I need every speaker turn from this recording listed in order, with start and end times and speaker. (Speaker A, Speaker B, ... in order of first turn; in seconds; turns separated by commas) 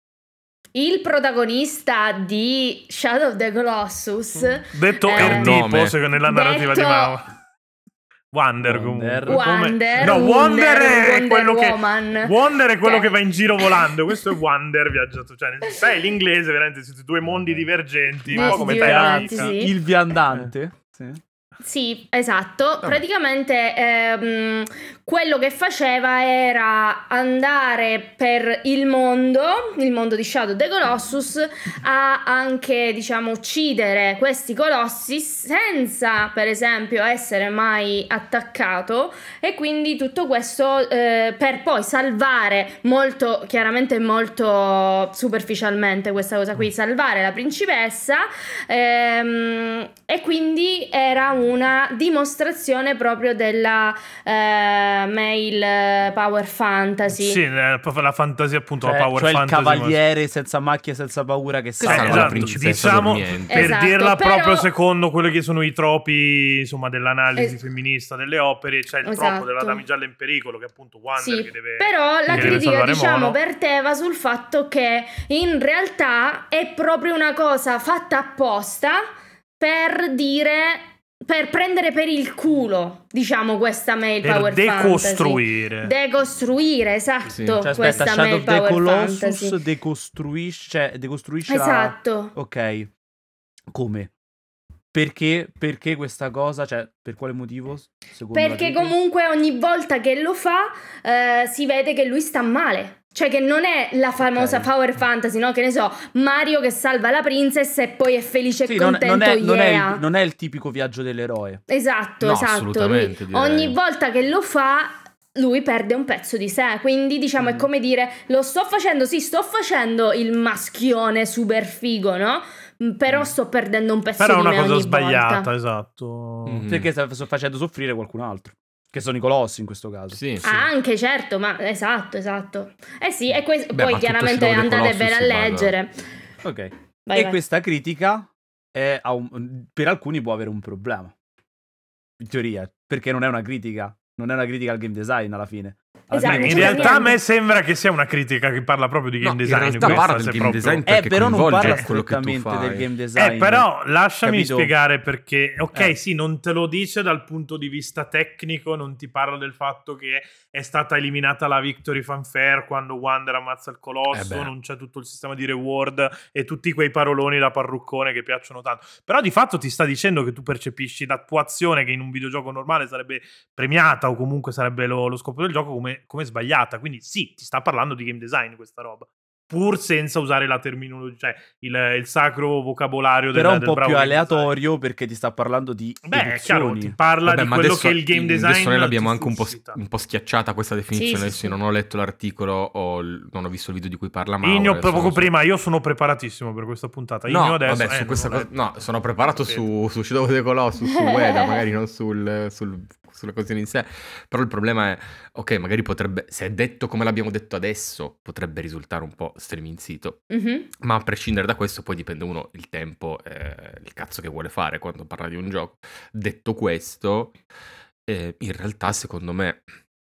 Speaker A: 0.7-5.6, Speaker B: 4.7-7.3, Speaker C: 5.1-5.9, Speaker A: 6.2-7.2, Speaker B: 8.3-19.6, Speaker D: 8.6-9.4, Speaker A: 9.2-13.7, Speaker A: 18.3-19.7, Speaker D: 18.3-21.2, Speaker A: 21.6-57.4, Speaker B: 57.1-60.0, Speaker D: 58.8-63.1, Speaker C: 61.8-63.7, Speaker B: 61.8-73.4, Speaker A: 63.5-64.7, Speaker A: 69.0-69.8, Speaker A: 71.2-79.0, Speaker C: 72.3-72.6, Speaker A: 79.6-89.6, Speaker B: 84.2-85.9, Speaker C: 87.3-88.0, Speaker D: 87.6-92.9, Speaker A: 91.5-92.3, Speaker D: 93.7-94.1, Speaker D: 94.9-98.9, Speaker A: 98.3-110.0, Speaker D: 104.2-104.7, Speaker D: 108.7-111.6, Speaker A: 111.7-125.5, Speaker C: 112.2-113.8, Speaker D: 117.4-117.7, Speaker B: 124.2-126.6, Speaker C: 126.5-126.9, Speaker D: 126.7-130.7, Speaker C: 130.1-130.5, Speaker A: 130.4-136.0, Speaker C: 133.7-135.7, Speaker D: 136.4-141.1, Speaker A: 137.1-137.4, Speaker D: 142.2-147.0, Speaker A: 146.1-147.2, Speaker B: 146.2-150.9, Speaker C: 149.2-152.8, Speaker D: 149.8-150.1, Speaker D: 150.8-153.7, Speaker B: 151.6-151.9, Speaker B: 153.1-184.5, Speaker D: 154.2-154.7, Speaker C: 164.1-164.5, Speaker D: 183.3-186.9, Speaker B: 186.0-189.8, Speaker C: 187.2-195.3, Speaker A: 190.9-191.6, Speaker B: 194.4-198.5, Speaker C: 197.3-210.2, Speaker B: 199.3-199.7, Speaker A: 200.9-201.5, Speaker A: 210.3-210.7, Speaker C: 210.8-217.4, Speaker C: 218.0-219.7